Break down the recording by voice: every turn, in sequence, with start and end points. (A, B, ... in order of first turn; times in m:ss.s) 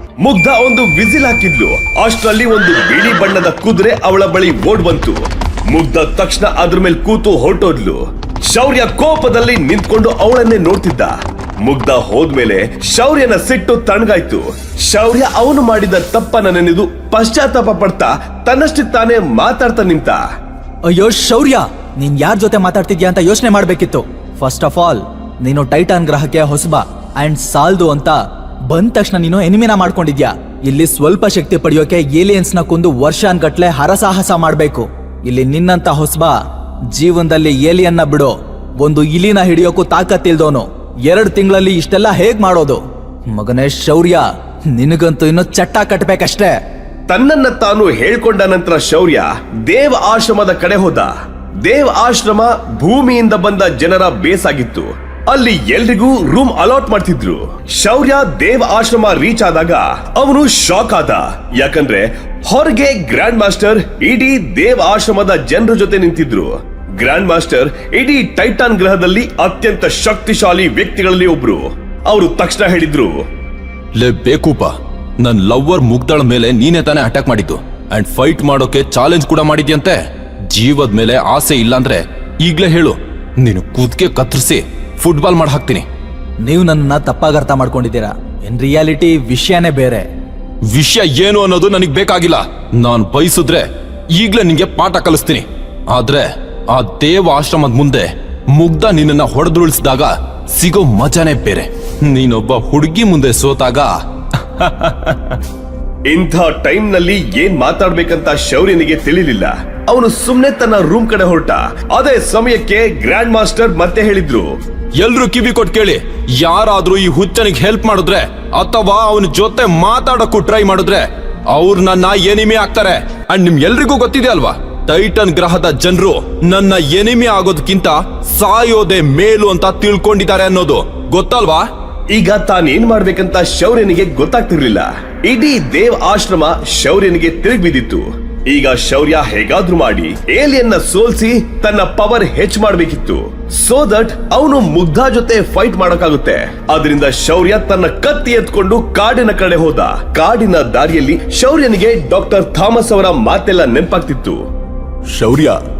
0:00.2-0:20.2 A
0:20.9-0:28.2 B
0:28.7-0:36.4 B
0:36.9-0:44.2 B
0:44.8-0:46.6 B
0:47.1-0:51.1 A
0:51.6-1:13.2 A
1:14.0-1:25.8 C
1:26.4-1:30.0 B
1:30.6-1:45.3 C
1:46.1-1:54.5 A
1:55.0-2:11.7 C
2:12.1-2:34.4 A
2:35.1-2:35.6 B